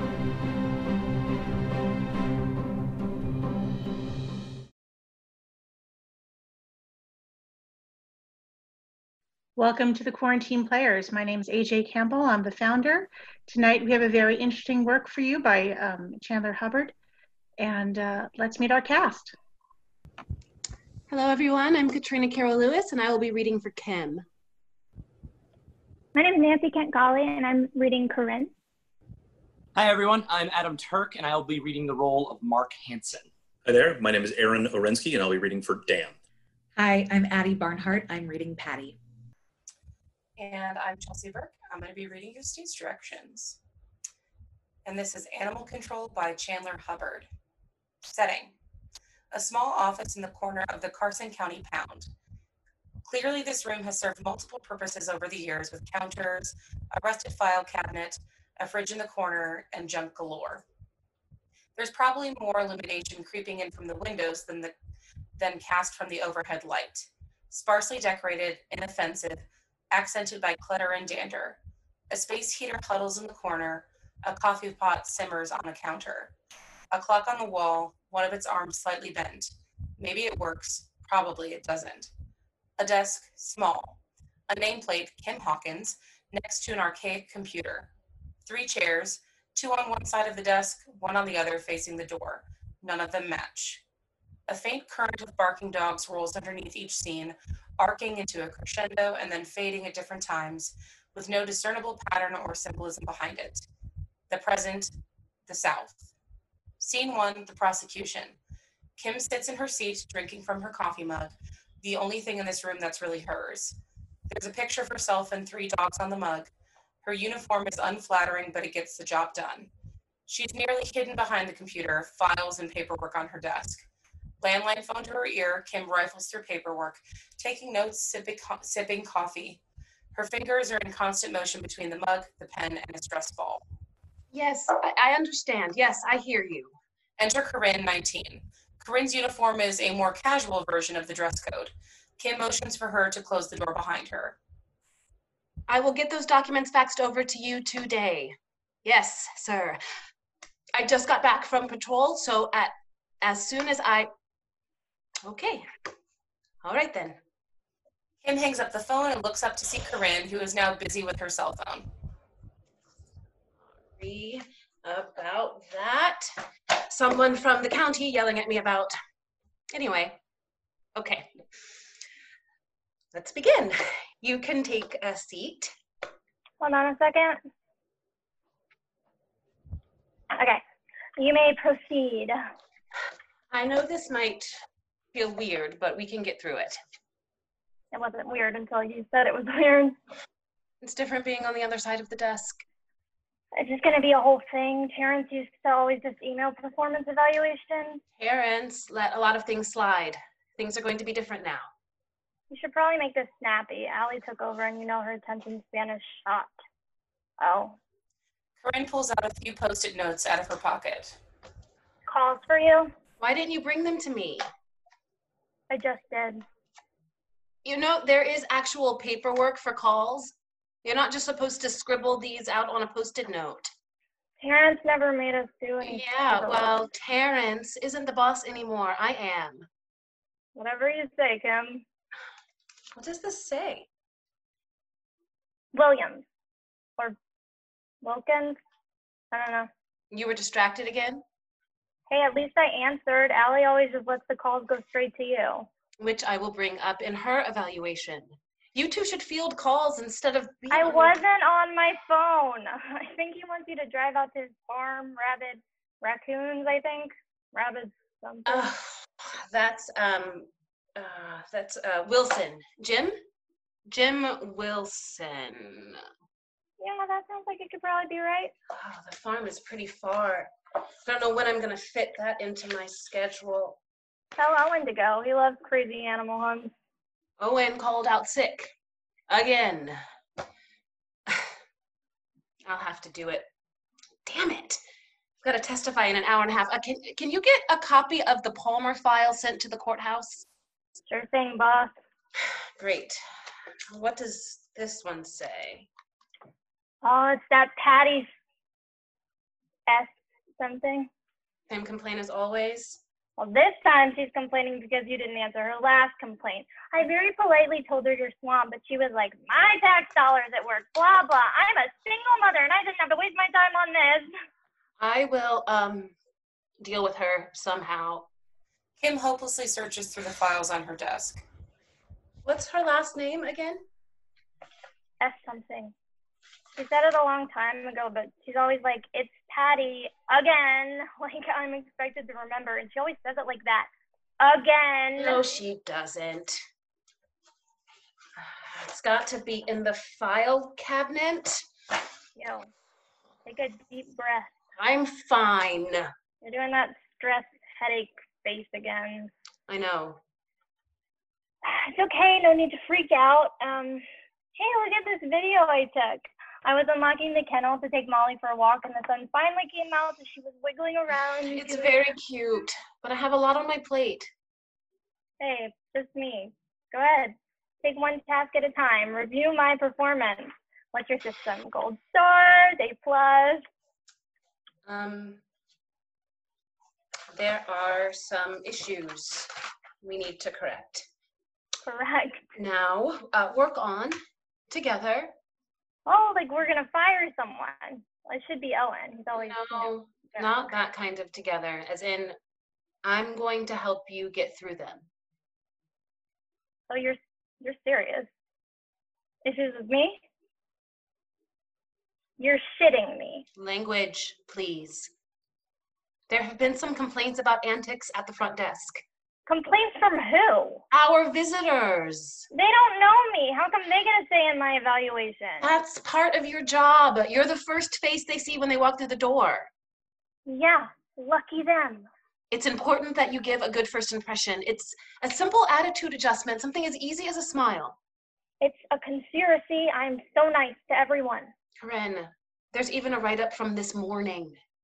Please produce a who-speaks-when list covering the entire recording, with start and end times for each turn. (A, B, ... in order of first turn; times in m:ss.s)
0:09.6-0:16.9 A
0:17.6-0:19.3 A
0:21.1-0:24.2 B
0:26.2-0:28.5 C
0:29.8-0:33.3 D
0:33.6-0:36.1 E
0:36.8-0:39.0 F
0:40.4-0:43.6 G
0:44.8-0:47.3 G
0:48.0-0:48.6 G
0:49.3-0:52.1 G
0:53.0-1:00.6 G
1:01.8-1:04.7 G
1:05.4-1:11.6 G
1:12.1-1:16.3 G
1:16.9-1:22.1 G
1:22.8-1:27.9 G
1:28.4-1:33.8 G
1:34.5-1:43.7 G
1:44.3-1:44.9 G
1:45.5-1:46.1 G
1:46.8-1:48.4 G
1:49.0-1:53.8 G
1:54.3-1:56.5 G
1:57.0-1:59.7 G
2:00.3-2:03.8 G
2:04.4-2:09.6 G
2:10.1-2:13.6 G
2:14.3-2:16.7 B
2:17.2-2:24.4 G
2:25.7-2:29.8 B
2:30.8-2:34.1 B
2:35.2-2:35.6 B
2:36.6-2:37.2 B
2:38.2-2:41.9 G
2:44.0-2:48.9 B
2:49.7-2:50.2 B
2:51.0-2:51.4 B
2:53.1-2:55.7 B
2:56.6-2:57.4 C
3:00.3-3:00.6 C
3:01.2-3:02.4 C
3:03.5-3:04.5 B
3:05.1-3:06.8 B
3:07.9-3:09.9 C
3:10.8-3:12.6 B
3:13.6-3:18.0 C
3:18.2-3:21.7 B
3:22.5-3:26.5 C
3:27.4-3:27.8 C
3:28.6-3:31.2 G
3:32.1-3:32.9 C
3:33.2-3:34.4 B
3:35.7-3:36.4 C
3:37.6-3:43.7 B
3:44.4-3:46.8 C
3:45.8-3:49.7 B
3:50.6-3:51.8 C
3:52.9-3:53.9 B
3:55.7-3:56.2 C
3:58.0-3:58.6 C
3:59.3-3:59.7 C
4:00.1-4:01.2 B
4:02.1-4:05.7 C
4:06.0-4:11.1 B
4:10.7-4:18.6 C
4:18.4-4:23.2 B
4:23.9-4:26.0 B
4:26.8-4:28.5 C
4:28.7-4:30.5 B
4:31.0-4:33.8 B
4:34.4-4:36.7 C
4:37.4-4:38.7 B
4:39.3-4:40.0 B
4:42.6-4:43.5 B
4:44.2-4:44.8 B
4:45.4-4:50.4 B
4:51.1-4:51.9 C
4:52.8-4:53.2 B
4:53.9-4:55.9 B
4:57.0-4:58.3 C
4:59.9-5:01.1 C
5:01.7-5:03.0 B
5:03.4-5:14.3 C
5:15.0-5:16.1 B
5:16.8-5:18.3 B
5:19.0-5:21.4 G
5:22.4-5:23.8 B
5:25.2-5:25.9 C
5:26.8-5:33.9 C
5:34.4-5:35.4 C
5:35.2-5:36.6 B
5:38.4-5:41.6 B
5:42.4-5:42.7 C
5:43.4-5:44.5 C
5:44.8-5:46.1 B
5:46.4-5:49.3 C
5:49.7-5:50.2 B
5:51.6-5:54.0 C
5:54.6-6:02.0 C
6:01.5-6:04.3 B
6:05.4-6:13.6 C
6:14.9-6:15.4 B
6:17.3-6:19.5 B
6:20.0-6:21.0 B
6:21.9-6:22.4 C
6:22.6-6:24.2 B
6:24.7-6:25.3 B
6:26.1-6:30.5 C
6:29.4-6:32.4 B
6:33.0-6:35.1 B
6:36.9-6:38.3 C
6:39.4-6:40.2 C
6:42.4-6:43.4 C
6:43.6-6:45.1 B
6:46.3-6:49.0 B
6:49.5-6:50.8 C
6:50.9-6:52.4 B
6:52.5-6:55.7 C
6:55.6-6:59.7 B
7:00.5-7:02.1 C
7:02.5-7:08.0 B
7:08.6-7:11.5 C
7:11.8-7:14.6 B